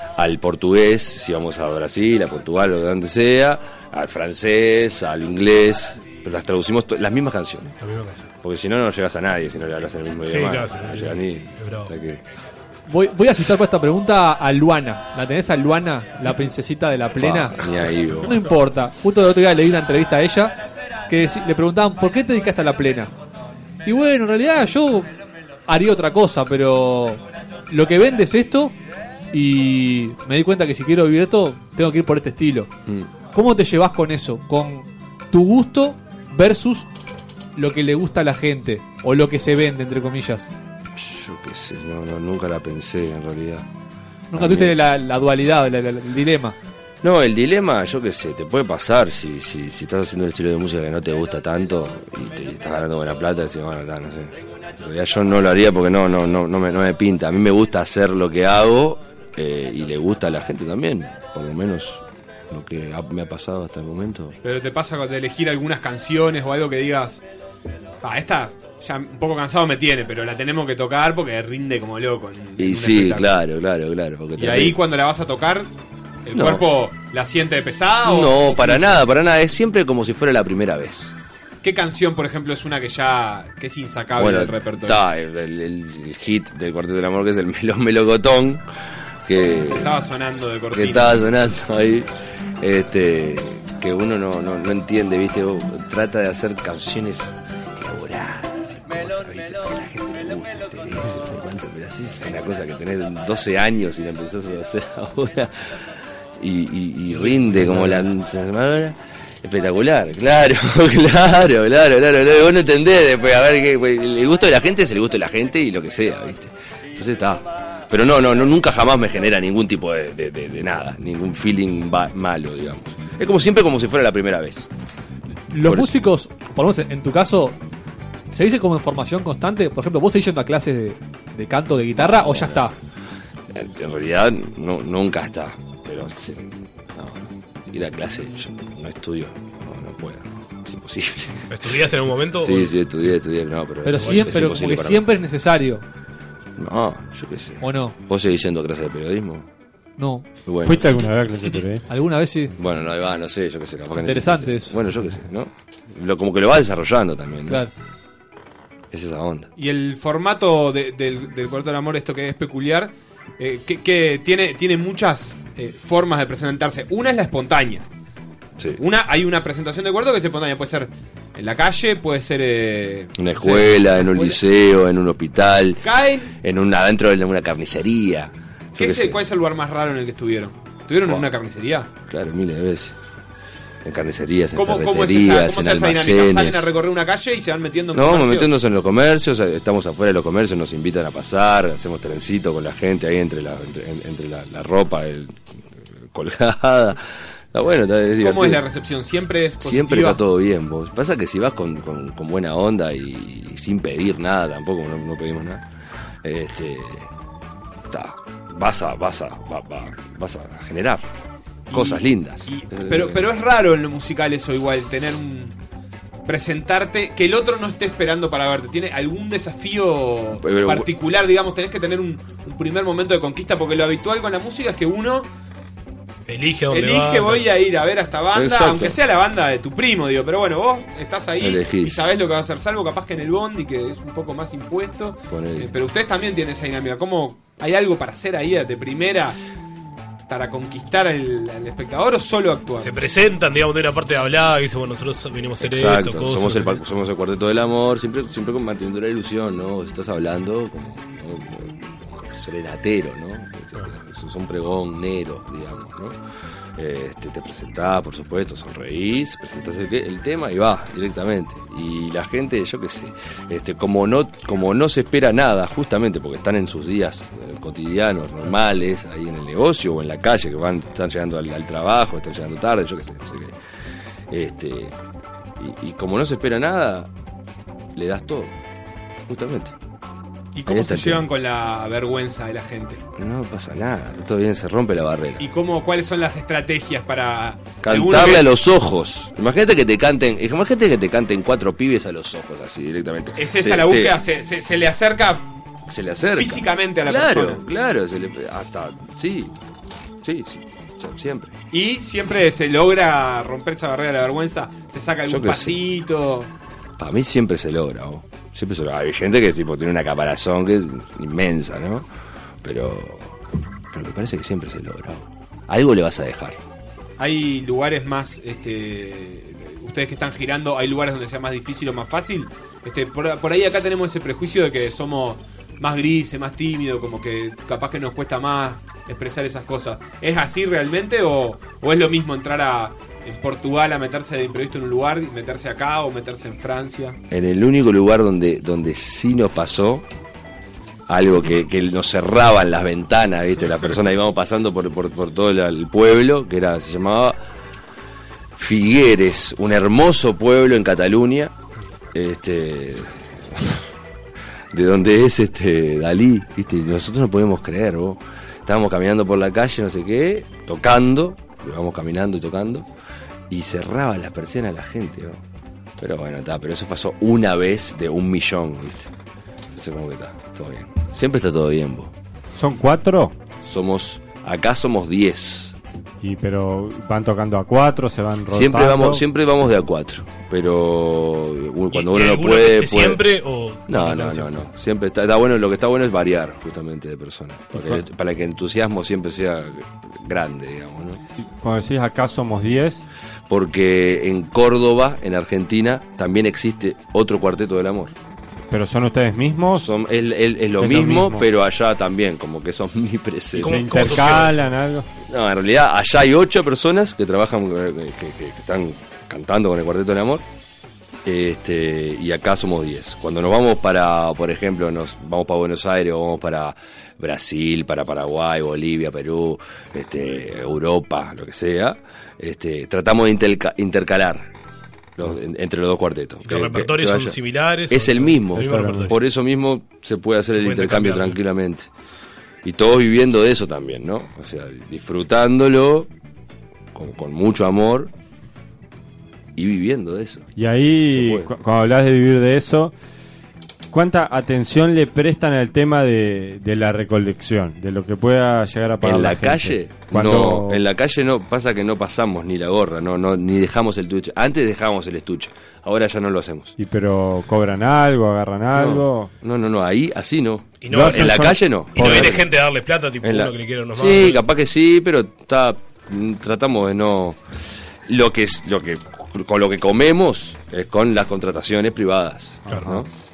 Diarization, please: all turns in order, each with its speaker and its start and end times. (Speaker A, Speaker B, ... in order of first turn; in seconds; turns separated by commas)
Speaker A: 0.2-7.8, Speaker B: 7.8-8.3, Speaker A: 8.4-12.2, Speaker B: 10.3-11.9, Speaker C: 12.9-17.7, Speaker A: 17.2-18.4, Speaker C: 18.2-20.6, Speaker C: 21.1-23.1, Speaker C: 23.9-25.1, Speaker C: 25.7-28.7, Speaker C: 29.3-32.7, Speaker C: 33.3-36.9, Speaker C: 37.6-40.5, Speaker A: 41.0-43.7, Speaker C: 44.3-46.6, Speaker A: 44.3-44.7, Speaker A: 47.0-64.4, Speaker D: 64.4-67.2, Speaker D: 68.0-73.3, Speaker A: 72.6-74.8, Speaker D: 74.4-75.7, Speaker D: 76.3-79.0, Speaker A: 76.3-76.7, Speaker A: 78.0-81.2, Speaker D: 81.6-85.0, Speaker A: 84.2-88.6, Speaker A: 89.3-90.0, Speaker D: 89.7-91.3, Speaker A: 90.7-92.1, Speaker A: 92.6-124.7, Speaker C: 125.5-127.6, Speaker A: 125.6-126.0, Speaker C: 128.3-132.7, Speaker A: 132.0-132.7, Speaker A: 133.5-141.8, Speaker B: 141.5-142.8, Speaker A: 142.4-145.0, Speaker C: 143.8-145.8, Speaker B: 143.9-144.5, Speaker A: 146.6-149.5, Speaker C: 147.6-147.9, Speaker C: 150.0-150.2, Speaker A: 150.5-151.0, Speaker E: 150.6-151.8, Speaker C: 151.9-152.5, Speaker A: 152.6-157.7, Speaker C: 154.0-154.8, Speaker A: 158.9-159.5, Speaker D: 159.6-167.8, Speaker D: 168.8-174.4, Speaker A: 173.2-175.8, Speaker D: 175.8-176.3, Speaker A: 176.4-179.2, Speaker D: 178.8-181.9, Speaker A: 181.0-181.3, Speaker A: 182.1-183.0, Speaker A: 183.8-186.7, Speaker D: 184.6-188.5, Speaker A: 187.9-195.4, Speaker A: 196.1-198.6, Speaker D: 198.2-200.2, Speaker A: 199.6-205.6, Speaker A: 206.2-207.1, Speaker A: 207.9-211.0, Speaker D: 211.7-215.6, Speaker A: 211.7-213.3, Speaker D: 216.3-225.3, Speaker A: 220.4-220.9, Speaker B: 226.3-227.5, Speaker D: 226.7-239.4, Speaker A: 228.3-229.0, Speaker A: 231.4-232.1, Speaker A: 235.3-235.7, Speaker D: 240.3-242.9, Speaker B: 242.8-246.8, Speaker A: 245.6-256.2, Speaker A: 256.8-273.6, Speaker A: 274.3-274.9, Speaker A: 275.6-277.1, Speaker A: 277.9-278.5, Speaker A: 279.3-279.7, Speaker D: 280.6-283.0, Speaker A: 280.7-281.3, Speaker A: 283.2-285.4, Speaker D: 285.4-288.5, Speaker A: 287.8-294.2, Speaker D: 293.4-295.4, Speaker A: 295.9-299.5, Speaker D: 296.4-297.6, Speaker A: 300.2-301.5, Speaker D: 301.7-306.5, Speaker A: 305.3-305.8, Speaker A: 307.0-312.1, Speaker A: 312.6-313.4, Speaker A: 313.9-316.6, Speaker D: 317.2-337.2, Speaker A: 337.3-340.0, Speaker A: 341.1-347.4, Speaker A: 348.6-351.5, Speaker A: 352.1-353.8, Speaker A: 354.7-362.9, Speaker A: 363.5-365.4, Speaker A: 366.0-369.1, Speaker A: 369.7-372.1, Speaker E: 372.6-373.4, Speaker A: 373.6-375.8, Speaker E: 376.2-379.2, Speaker A: 378.5-383.2, Speaker B: 381.9-384.6, Speaker A: 383.9-391.2, Speaker E: 387.7-388.0, Speaker E: 391.4-393.1, Speaker A: 393.5-398.1, Speaker E: 398.7-399.9, Speaker A: 399.8-404.4, Speaker E: 400.8-401.5, Speaker B: 403.6-404.7, Speaker E: 403.6-405.1, Speaker A: 405.2-410.4, Speaker A: 411.2-424.5, Speaker A: 425.2-427.4, Speaker B: 426.4-429.2, Speaker A: 427.9-431.9, Speaker E: 428.5-429.2, Speaker B: 430.5-431.4, Speaker A: 432.6-436.1, Speaker A: 436.9-438.1, Speaker A: 439.6-440.5, Speaker E: 440.6-442.9, Speaker A: 441.1-441.5, Speaker E: 443.9-450.8, Speaker A: 449.0-456.8, Speaker E: 456.8-459.3, Speaker A: 458.7-462.5, Speaker B: 460.8-464.4, Speaker E: 460.9-462.4, Speaker A: 463.2-467.4, Speaker A: 468.1-473.1, Speaker E: 472.7-473.0, Speaker B: 472.7-473.0